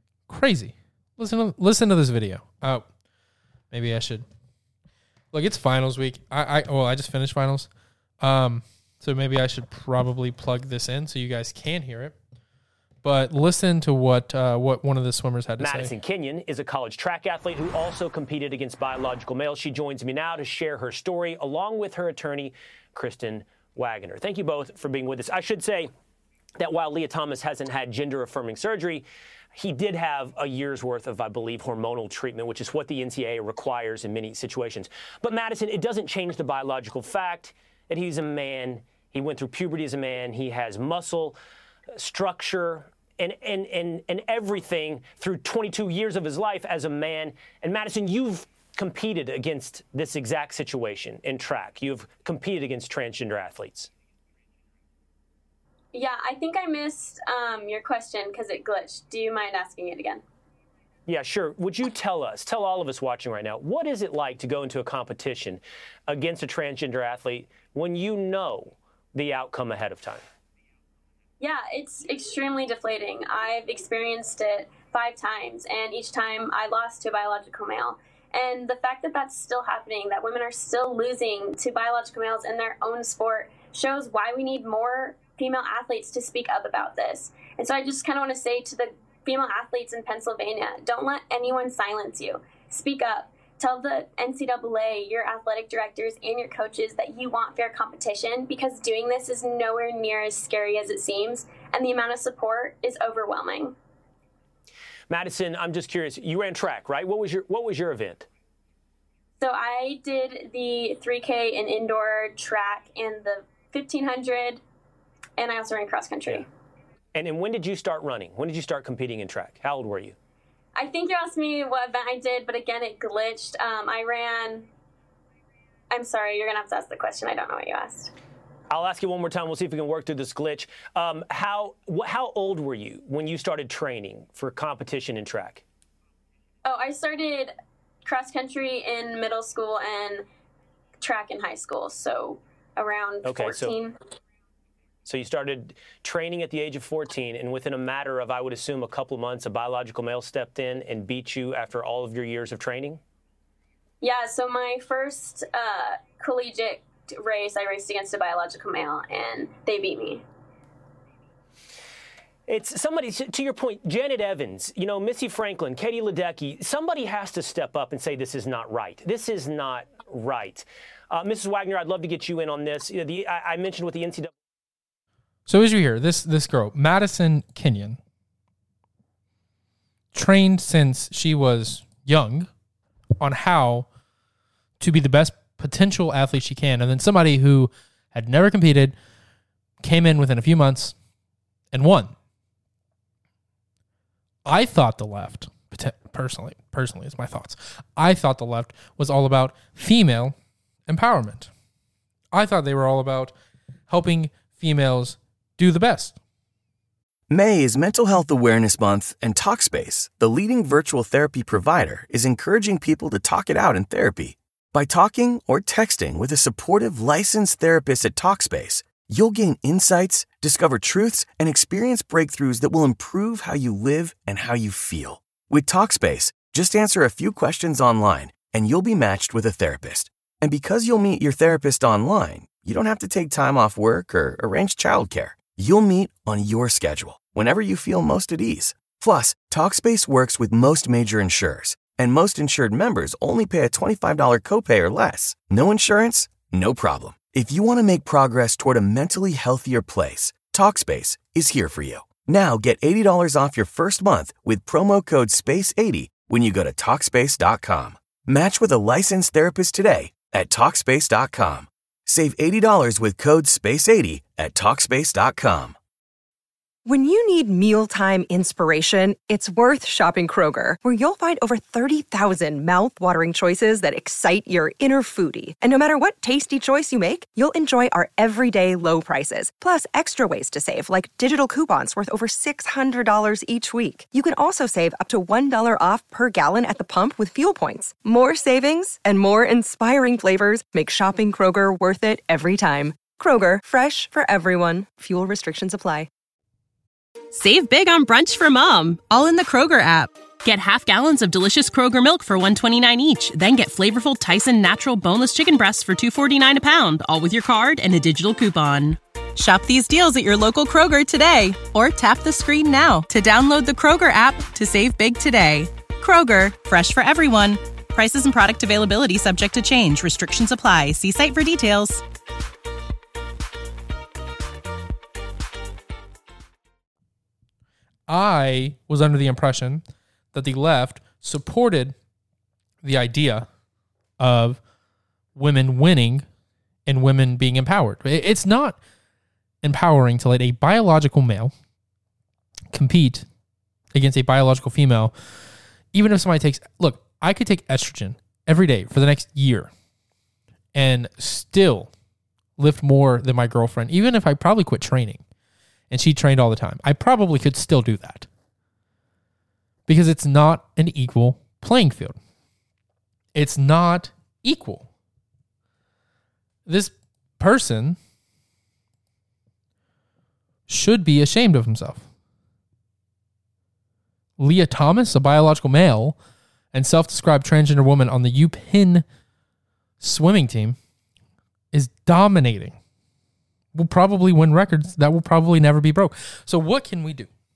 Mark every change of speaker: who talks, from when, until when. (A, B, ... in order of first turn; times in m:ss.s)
0:00.3-0:02.8 A
0:03.7-0:04.2 A
0:05.3-0:07.7 A
0:08.2-0:12.2 A
0:13.0-0:15.9 A
0:15.6-0:25.9 B
0:26.6-0:41.4 B
0:42.0-0:53.9 B
0:55.9-1:00.2 C
1:01.1-1:10.2 B
1:11.4-1:43.8 C
1:45.1-1:48.3 B
1:49.4-1:54.6 C
1:55.4-1:56.5 C
1:57.2-2:00.2 B
2:00.8-2:04.7 C
2:05.9-2:08.1 C
2:08.7-2:15.6 B
2:16.6-2:17.5 C
2:18.0-2:20.2 C
2:21.0-2:24.0 C
2:23.2-2:23.8 B
2:25.1-2:33.0 B
2:34.0-2:40.2 C
2:42.5-2:54.3 B
2:55.5-2:58.0 A
3:00.1-3:02.5 A
3:03.2-3:03.9 A
3:04.8-3:09.0 A
3:09.8-3:11.0 A
3:11.7-3:12.1 A
3:14.5-3:20.3 A
3:20.9-3:21.5 A
3:22.3-3:23.4 A
3:23.9-3:26.2 A
3:27.3-4:25.8 D
4:26.8-4:56.1 E
4:57.3-5:22.0 F
5:28.1-5:31.9 A
5:32.8-5:33.5 A
5:34.2-5:34.6 A
5:35.4-5:36.2 A
5:36.9-5:38.8 A
5:39.6-5:41.5 A
5:42.7-5:43.3 A
5:43.9-5:45.1 A
5:45.9-5:49.7 A
5:50.7-5:51.9 A
5:52.6-5:55.2 A
5:55.9-5:58.3 A
5:59.9-6:02.2 A
6:03.3-6:04.9 A
6:06.7-6:08.0 A
6:10.7-6:12.0 A
6:14.4-6:16.2 A
6:16.7-6:19.0 A
6:20.0-6:20.8 A
6:21.7-6:22.8 A
6:23.8-6:27.3 A